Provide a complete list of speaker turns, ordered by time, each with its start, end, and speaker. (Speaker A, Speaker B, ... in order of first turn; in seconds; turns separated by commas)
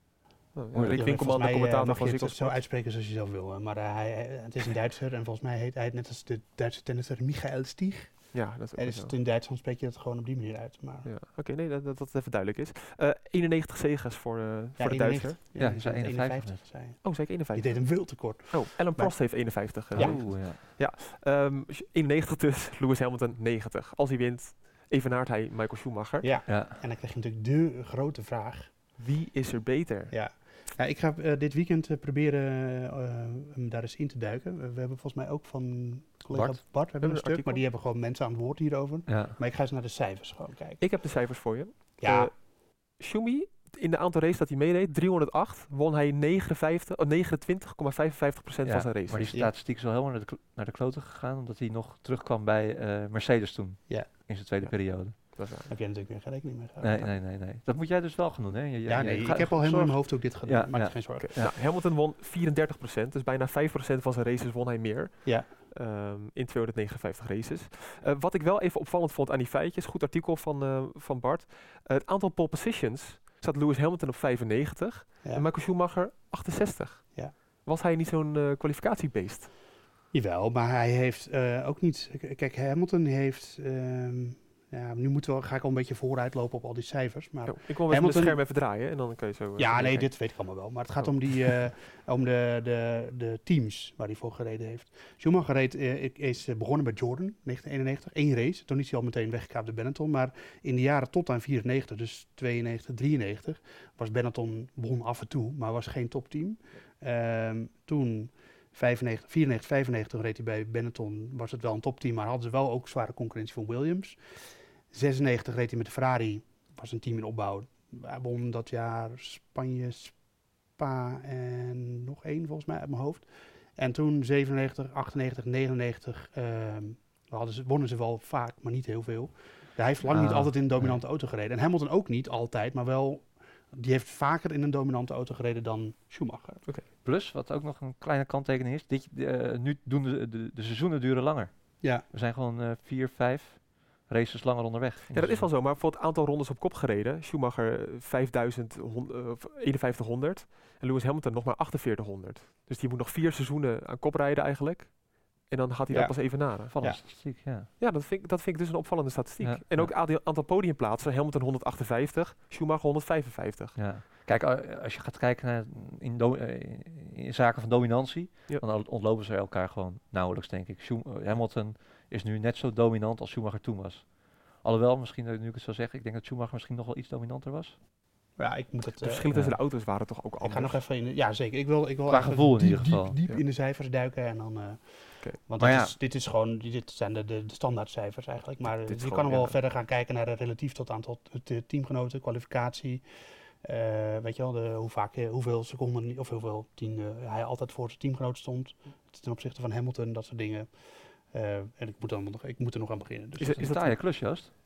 Speaker A: 0.5-2.6, Speaker B: 0.7-1.1, Speaker C: 0.9-11.1, Speaker A: 8.3-9.1, Speaker A: 11.0-15.8, Speaker C: 14.8-20.3, Speaker B: 15.6-16.6, Speaker A: 17.0-26.3, Speaker B: 19.9-20.6, Speaker C: 26.2-28.7, Speaker B: 26.5-26.8, Speaker A: 29.0-30.2, Speaker C: 30.1-40.8, Speaker B: 36.3-36.6, Speaker A: 37.0-37.6, Speaker B: 39.1-39.4, Speaker A: 40.8-49.4, Speaker C: 42.0-42.3, Speaker B: 48.6-55.4, Speaker A: 54.6-55.7, Speaker C: 55.7-57.2, Speaker B: 56.8-61.5, Speaker C: 58.9-61.3, Speaker A: 61.2-79.5, Speaker C: 65.2-65.5, Speaker C: 80.1-88.4, Speaker A: 87.5-91.1, Speaker C: 89.6-136.7, Speaker B: 130.1-131.0, Speaker B: 137.0-145.5, Speaker C: 141.8-142.0, Speaker A: 145.1-163.9, Speaker C: 155.9-157.0, Speaker B: 156.7-157.7, Speaker B: 159.4-159.9, Speaker B: 163.8-177.8, Speaker C: 178.3-179.3, Speaker A: 179.0-180.8, Speaker C: 180.4-193.0, Speaker B: 182.1-183.2, Speaker B: 185.6-185.9, Speaker A: 188.7-189.6, Speaker C: 193.6-203.7, Speaker A: 203.4-204.0, Speaker B: 203.5-204.5